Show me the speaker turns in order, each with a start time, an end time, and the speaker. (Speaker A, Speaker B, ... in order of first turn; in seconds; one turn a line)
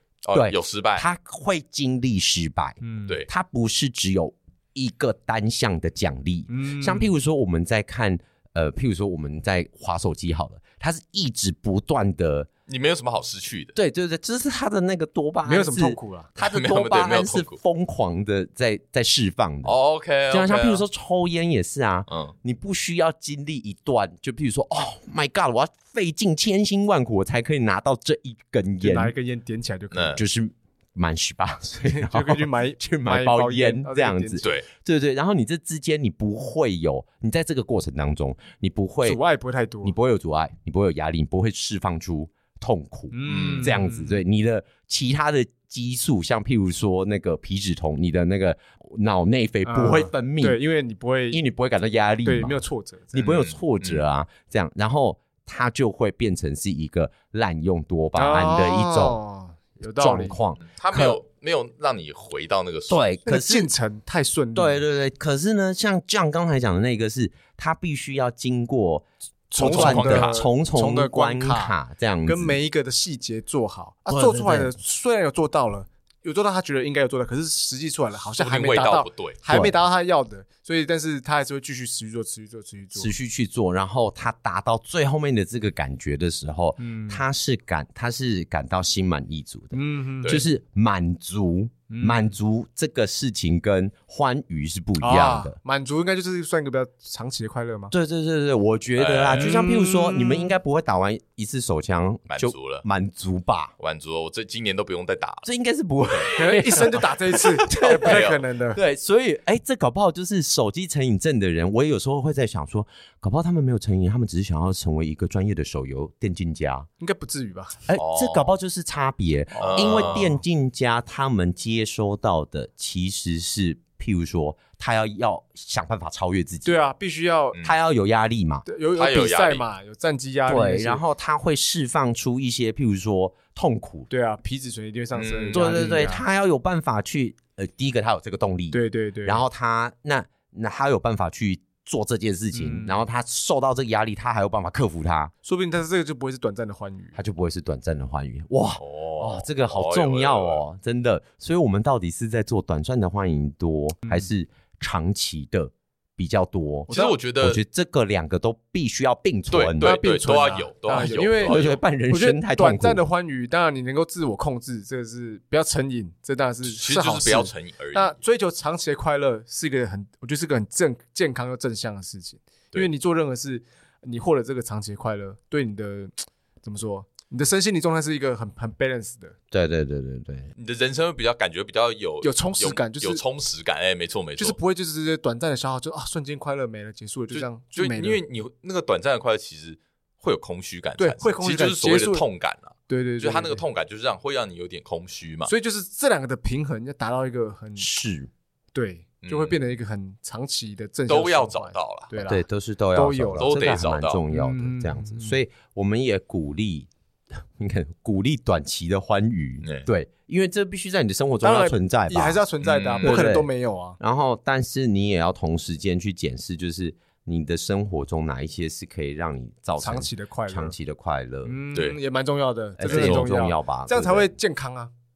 Speaker A: 0.2-1.1
Speaker B: 0.3-12.5
Speaker C: 2.8-3.2
Speaker C: 6.5-7.1
Speaker A: 12.7-13.8
Speaker B: 13.8-19.8
Speaker C: 15.4-16.3
Speaker A: 16.4-17.6
Speaker A: 19.6-20.8
Speaker B: 20.3-29.1
Speaker A: 22.1-22.4
Speaker C: 28.8-30.2
Speaker A: 29.9-30.2
Speaker B: 30.2-39.2
Speaker C: 31.8-34.4
Speaker A: 34.4-34.7
Speaker C: 39.0-40.0
Speaker B: 39.8-50.6
Speaker C: 43.1-44.2
Speaker A: 43.2-43.8
Speaker C: 49.6-51.4
Speaker B: 51.3-59.2
Speaker C: 52.2-53.4
Speaker A: 53.2-54.0
Speaker C: 58.1-60.4
Speaker B: 60.0-61.2
Speaker A: 60.6-63.0
Speaker B: 62.9-63.7
Speaker C: 63.3-64.8
Speaker B: 64.5-72.6
Speaker C: 69.6-83.1
Speaker A: 69.6-70.4
Speaker B: 74.1-74.7
Speaker A: 78.4-79.4
Speaker B: 79.5-79.8
Speaker B: 83.0-95.6
Speaker C: 86.8-87.2
Speaker C: 89.7-90.4
Speaker C: 91.9-92.3
Speaker C: 95.0-97.9
Speaker B: 97.9-103.7
Speaker A: 99.0-99.6
Speaker C: 99.4-100.5
Speaker A: 102.3-102.8
Speaker A: 103.8-105.5
Speaker B: 105.4-116.9
Speaker A: 106.0-106.4
Speaker C: 106.3-108.8
Speaker A: 107.7-108.4
Speaker C: 117.0-117.8
Speaker B: 117.9-126.8
Speaker A: 118.0-118.5
Speaker C: 119.5-120.4
Speaker A: 119.6-120.3
Speaker C: 126.7-127.6
Speaker B: 127.6-128.7
Speaker C: 128.7-131.0
Speaker A: 128.9-129.7
Speaker B: 130.5-134.1
Speaker C: 134.1-136.2
Speaker A: 135.1-135.7
Speaker B: 135.5-145.3
Speaker C: 138.7-139.5
Speaker C: 142.5-143.1
Speaker C: 145.4-147.2
Speaker B: 147.2-160.0
Speaker A: 148.8-150.6
Speaker C: 154.1-154.3
Speaker C: 156.9-157.2
Speaker A: 156.9-157.6
Speaker A: 159.5-161.8
Speaker C: 159.8-179.4
Speaker B: 160.9-163.0
Speaker A: 166.6-168.2
Speaker B: 179.5-180.5
Speaker A: 180.6-184.6
Speaker C: 182.2-183.2
Speaker C: 184.4-188.2
Speaker A: 187.3-195.5
Speaker C: 191.0-192.2
Speaker C: 192.9-193.6
Speaker C: 195.5-198.0
Speaker B: 197.8-198.3
Speaker C: 198.7-203.7
Speaker A: 199.2-199.6
Speaker A: 201.1-202.1
Speaker B: 202.2-206.9
Speaker A: 203.4-204.2
Speaker C: 204.3-205.4
Speaker B: 207.6-212.4
Speaker C: 211.4-214.0
Speaker A: 212.6-213.2
Speaker B: 213.0-221.6
Speaker C: 219.8-220.8
Speaker C: 221.4-224.9
Speaker A: 221.7-222.0
Speaker B: 222.8-224.3
Speaker A: 222.9-223.2